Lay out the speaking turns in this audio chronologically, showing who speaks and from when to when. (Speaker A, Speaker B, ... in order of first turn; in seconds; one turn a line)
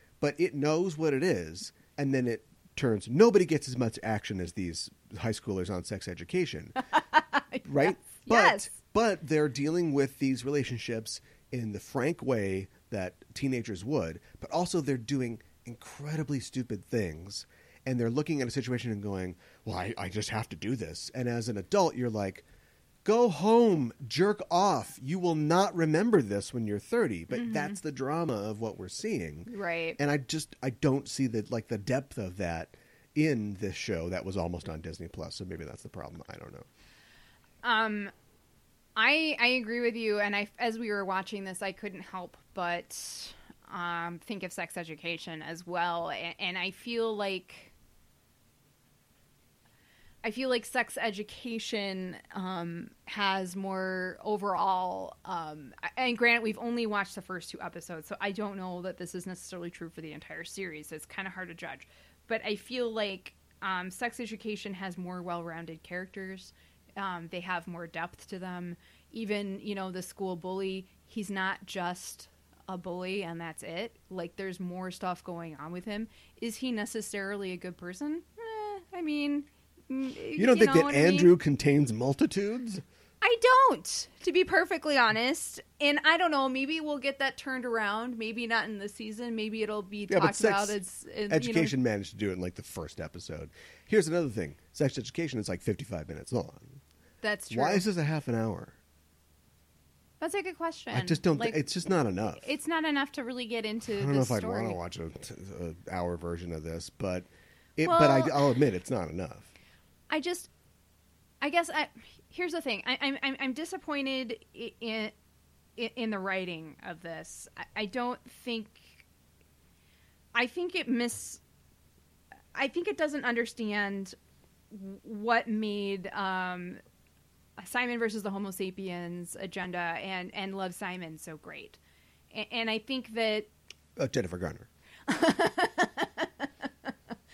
Speaker A: 0.2-6.8
Speaker B: 6.8-8.7
Speaker A: 7.7-22.4
Speaker A: 23.0-36.7
Speaker B: 27.3-27.8
Speaker B: 29.5-30.0
Speaker B: 37.6-38.1
Speaker B: 39.0-47.7
Speaker B: 50.2-81.3
Speaker A: 80.4-82.8
Speaker B: 83.2-91.8
Speaker A: 90.1-96.8
Speaker B: 97.2-97.9
Speaker A: 97.5-98.8
Speaker B: 100.2-101.6
Speaker A: 100.9-102.5
Speaker B: 102.4-104.8
Speaker A: 103.9-109.5
Speaker B: 107.8-108.5
Speaker B: 110.1-110.5
Speaker B: 111.4-115.1
Speaker B: 115.8-119.0
Speaker B: 120.3-121.4
Speaker B: 122.5-124.2
Speaker B: 124.7-126.8
Speaker B: 127.6-131.8
Speaker B: 132.3-133.5
Speaker A: 134.0-134.7
Speaker B: 135.1-136.9